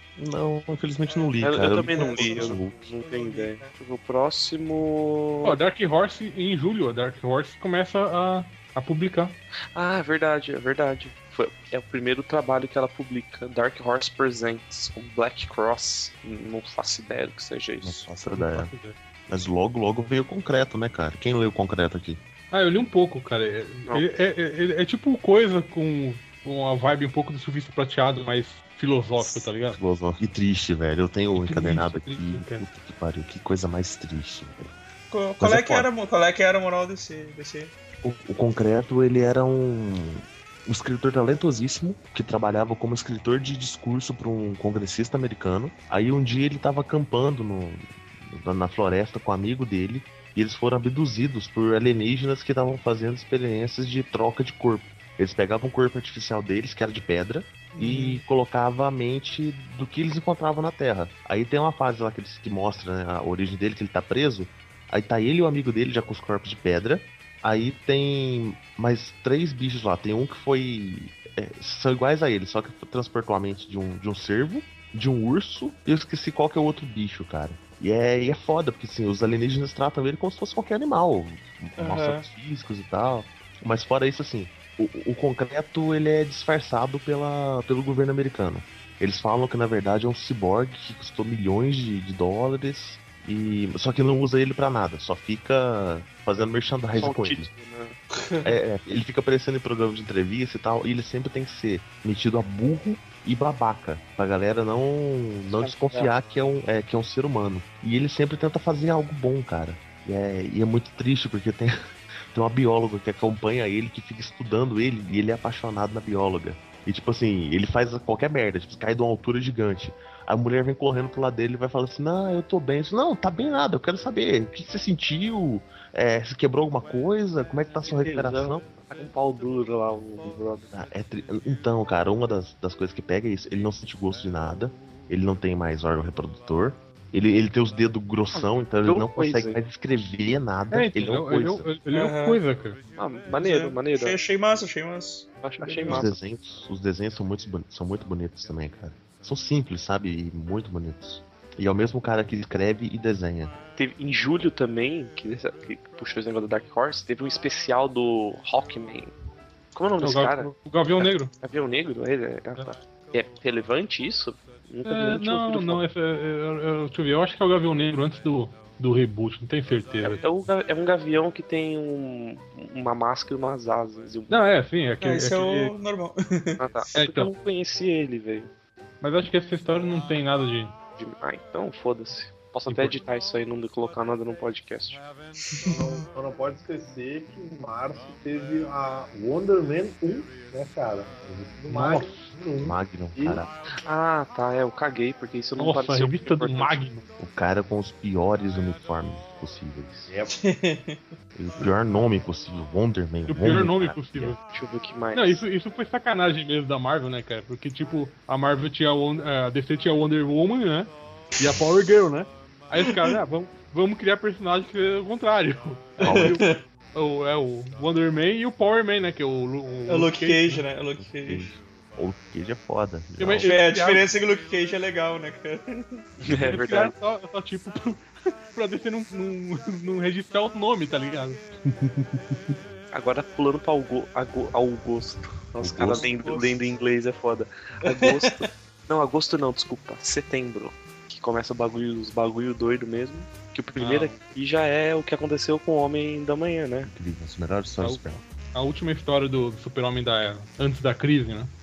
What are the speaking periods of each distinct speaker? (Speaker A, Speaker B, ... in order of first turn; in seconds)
Speaker A: 0.2-2.8, 17.8-18.7, 19.3-22.2, 29.7-34.7, 35.4-35.9, 38.0-97.5, 98.4-111.7, 112.3-128.6, 130.7-141.7, 145.8-153.5, 192.6-193.5, 197.2-200.1, 201.3-204.3, 216.0-216.4, 221.0-223.5, 226.2-226.6, 231.7-232.6, 235.6-236.1, 246.8-248.2
Speaker B: 1.0-3.8, 35.1-37.7, 57.7-58.2, 81.8-82.3, 98.1-98.4, 141.9-142.4, 143.4-145.3, 175.0-176.6, 185.5-186.0, 200.3-201.0, 212.8-213.1, 216.0-216.6, 219.9-221.5, 223.4-226.0, 235.8-236.7, 237.8-238.5
Speaker C: 1.4-5.6, 9.7-18.1, 97.0-98.0, 105.5-106.1, 127.8-130.7, 138.3-139.6, 143.0-144.2, 145.4-146.2, 153.8-159.1, 159.7-165.8, 170.0-174.3, 176.6-178.5, 181.0-185.0, 193.8-196.8, 204.4-205.4, 226.2-226.9, 232.9-246.9
Speaker D: 5.4-9.3, 18.3-18.9, 22.5-29.8, 31.4-32.6, 140.7-142.8, 145.6-146.0, 160.0-161.3, 164.8-170.2, 174.3-175.7, 176.9-177.3, 179.0-180.7, 182.7-182.9, 191.7-192.3, 195.6-197.0, 203.3-204.4, 205.1-220.6, 223.2-224.0, 226.4-231.4, 243.8-244.2, 247.8-251.5
Speaker E: 185.6-193.4